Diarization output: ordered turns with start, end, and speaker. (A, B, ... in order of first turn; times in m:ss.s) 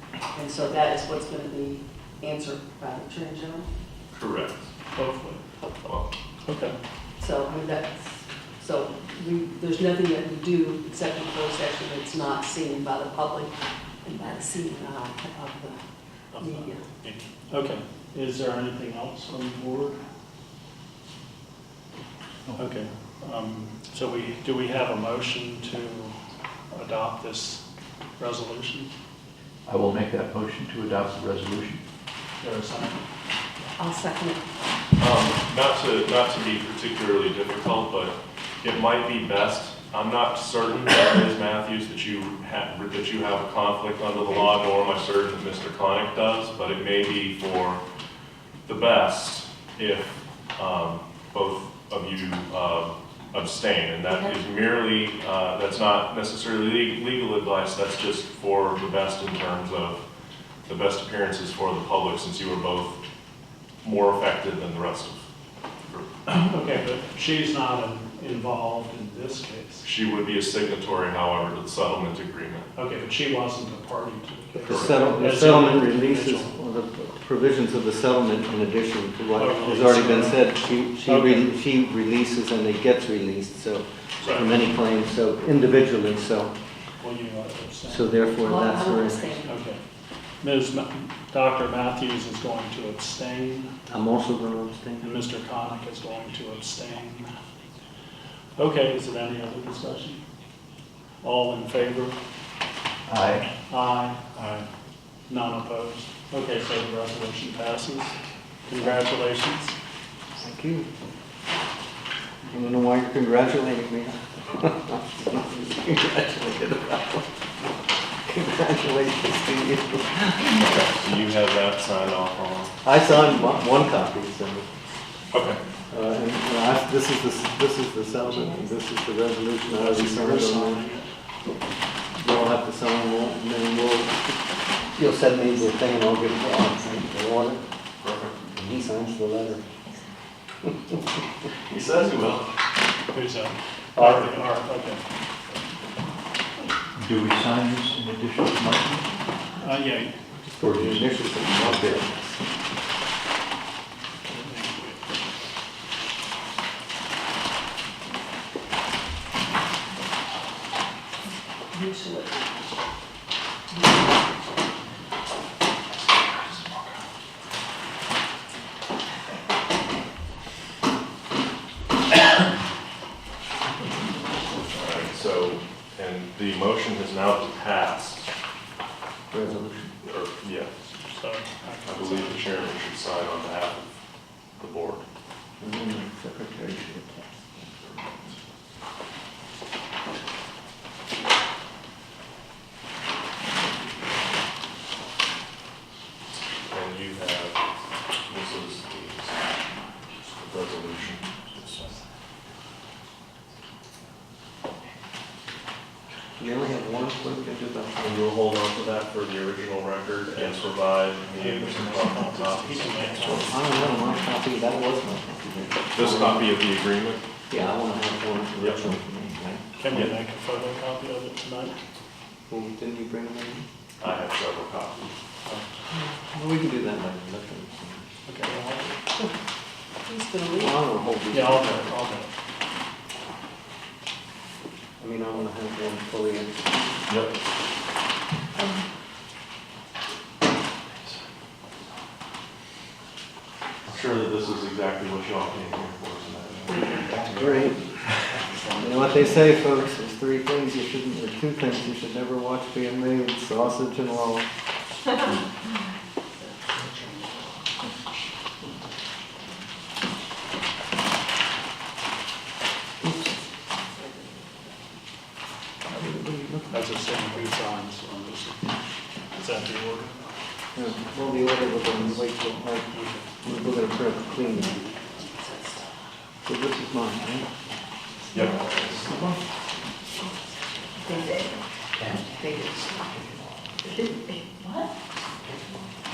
0:00.3-0:03.7 A
0:04.1-0:04.7 B
0:05.0-0:05.4 C
0:05.6-0:05.9 A
0:06.4-0:06.8 C
0:07.2-0:15.8 A
0:16.3-0:20.0 C
0:16.4-0:16.8 A
0:22.5-0:26.2 C
0:26.7-0:27.6 C
0:28.2-0:28.9 C
0:29.6-0:31.8 D
0:32.4-0:33.1 C
0:33.8-0:34.4 A
0:35.0-0:47.8 B
0:48.7-1:00.0 B
0:54.1-0:54.3 A
1:00.7-1:03.0 B
1:03.8-1:05.2 B
1:06.3-1:09.8 C
1:09.8-1:12.7 B
1:12.7-1:16.5 C
1:14.6-1:15.3 B
1:14.6-1:26.5 E
1:19.4-1:21.5 C
1:24.2-1:24.5 C
1:27.0-1:28.3 C
1:27.9-1:29.4 E
1:28.4-1:29.6 A
1:29.4-1:29.8 C
1:30.4-1:33.7 C
1:33.9-1:35.1 E
1:35.0-1:37.3 C
1:38.6-1:40.2 C
1:41.2-1:42.2 C
1:43.1-1:43.5 D
1:43.7-1:44.6 C
1:45.3-1:49.7 C
1:50.4-1:50.9 E
1:52.5-1:57.2 E
1:58.2-2:00.6 E
2:00.6-2:02.7 B
2:02.8-2:04.7 E
2:05.3-2:05.6 B
2:05.9-2:10.8 E
2:09.7-2:11.1 C
2:12.1-2:14.3 E
2:14.9-2:17.6 E
2:18.0-2:18.4 B
2:18.5-2:19.6 E
2:21.7-2:22.5 B
2:23.1-2:25.7 C
2:24.0-2:24.4 E
2:26.9-2:29.1 D
2:29.6-2:30.2 C
2:30.5-2:32.4 E
2:30.6-2:32.0 D
2:34.3-2:35.2 C
2:41.7-2:42.3 A
2:43.7-2:44.2 A
2:54.7-2:58.3 B
2:59.3-3:00.0 E
3:00.0-3:00.7 B
3:01.1-3:02.8 C
3:01.8-3:03.9 B
3:04.6-3:05.0 B
3:05.6-3:07.3 E
3:07.8-3:08.3 B
3:16.6-3:17.6 B
3:18.3-3:19.4 B
3:20.2-3:22.0 B
3:26.4-3:28.2 E
3:28.0-3:33.5 B
3:31.3-3:34.3 C
3:33.2-3:36.5 E
3:35.9-3:37.2 B
3:37.5-3:39.6 E
3:39.8-3:41.8 C
3:39.9-3:40.1 B
3:42.5-3:43.6 E
3:44.0-3:45.2 B
3:45.9-3:48.0 E
3:48.2-3:48.9 C
3:50.0-3:50.8 A
3:50.6-3:52.0 E
3:51.3-3:52.3 C
3:55.0-3:56.7 E
3:57.1-3:57.3 B
4:00.9-4:01.2 B
4:03.9-4:07.5 B
4:07.1-4:08.0 E
4:08.8-4:14.5 E
4:25.9-4:26.9 E
4:26.7-4:28.7 C
4:29.3-4:30.3 C
4:30.7-4:34.8 E
4:32.9-4:33.2 C
4:35.2-4:35.9 A
4:36.4-4:37.5 E
4:38.3-4:39.1 B